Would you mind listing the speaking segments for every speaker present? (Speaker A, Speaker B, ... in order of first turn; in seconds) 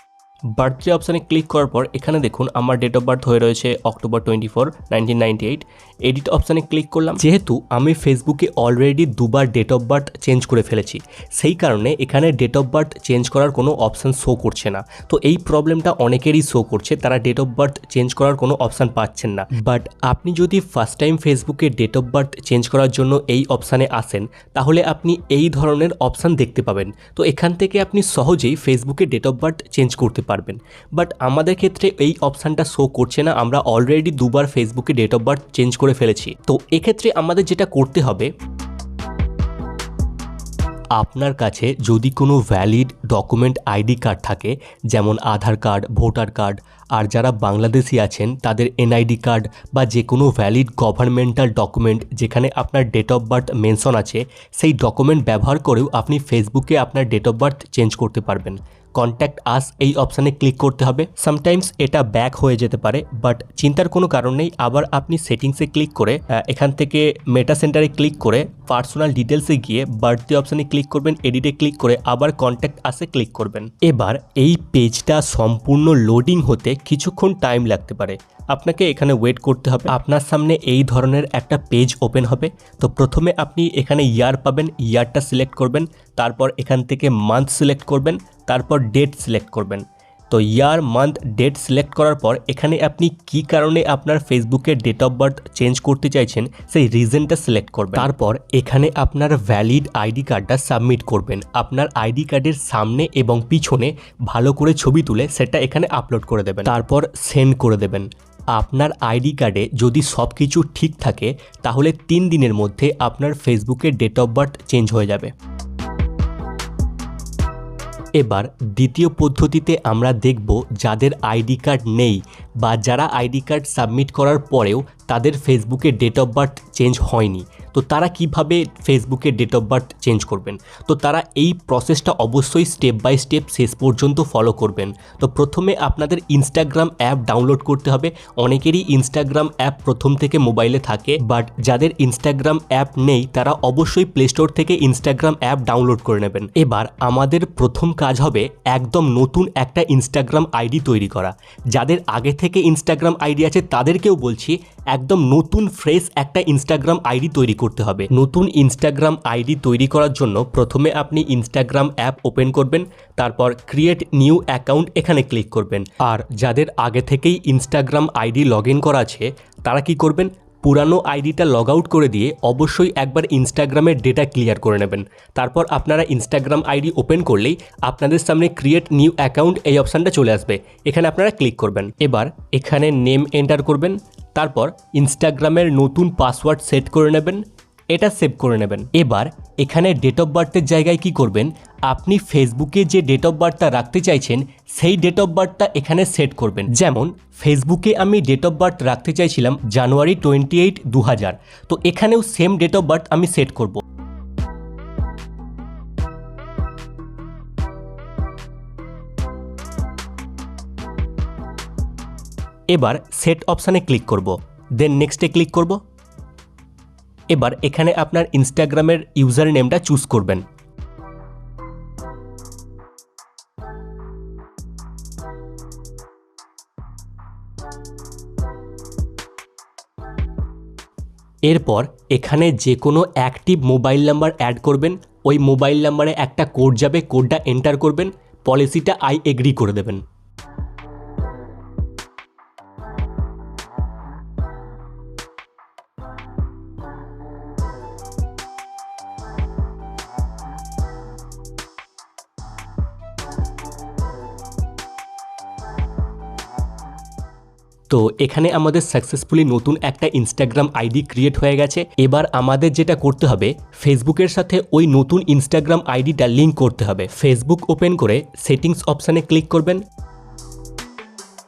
Speaker A: 0.5-38.3, 40.9-115.3, 118.2-203.8, 212.7-215.8, 217.3-220.4, 231.4-240.0, 257.9-269.8